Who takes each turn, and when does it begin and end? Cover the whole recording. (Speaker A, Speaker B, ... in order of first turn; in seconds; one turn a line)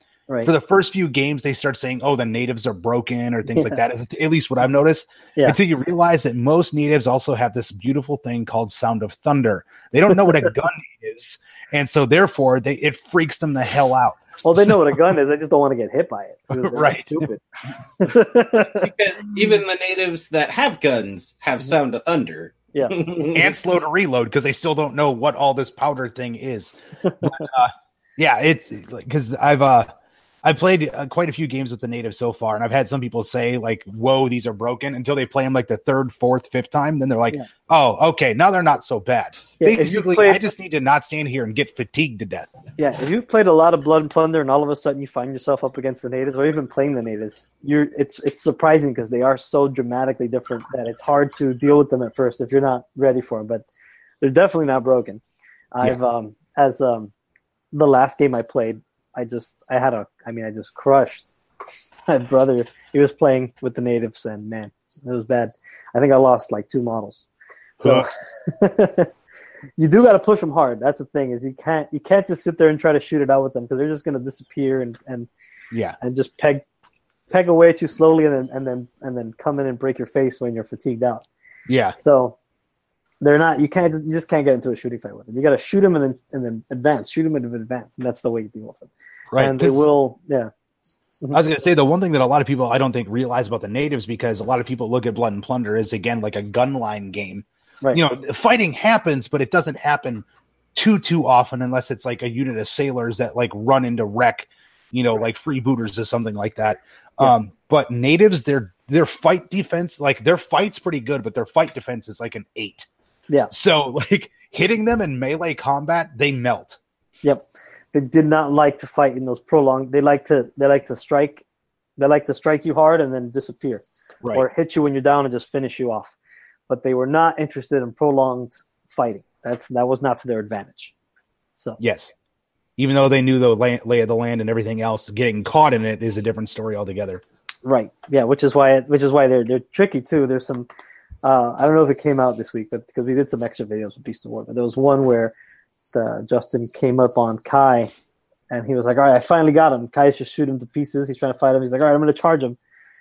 Speaker A: 0.4-14.7
Speaker B: 14.4-17.4
Speaker A: 16.5-17.2
Speaker B: 18.0-18.9
Speaker C: 18.8-23.5
Speaker A: 23.3-29.9
Speaker B: 27.0-27.5
Speaker A: 30.4-42.5
Speaker B: 39.6-40.4
Speaker B: 42.8-53.6
Speaker B: 54.2-55.2
Speaker B: 55.7-57.1
Speaker B: 57.7-61.3
Speaker B: 62.1-67.3
Speaker A: 67.8-68.1
Speaker B: 67.8-69.1
Speaker B: 69.8-75.3
Speaker B: 76.0-76.6
Speaker B: 77.3-81.2
Speaker A: 81.7-81.9
Speaker B: 82.0-82.3
Speaker B: 83.2-90.5
Speaker A: 89.3-89.8
Speaker A: 91.3-100.2
Speaker A: 100.7-112.9
Speaker A: 113.5-116.8
Speaker B: 117.2-121.4
Speaker B: 122.0-126.1
Speaker B: 126.7-130.9
Speaker A: 131.8-132.1
Speaker A: 132.8-137.2
Speaker B: 137.6-140.7
Speaker B: 141.2-145.3
Speaker B: 145.9-147.9
Speaker B: 148.5-152.6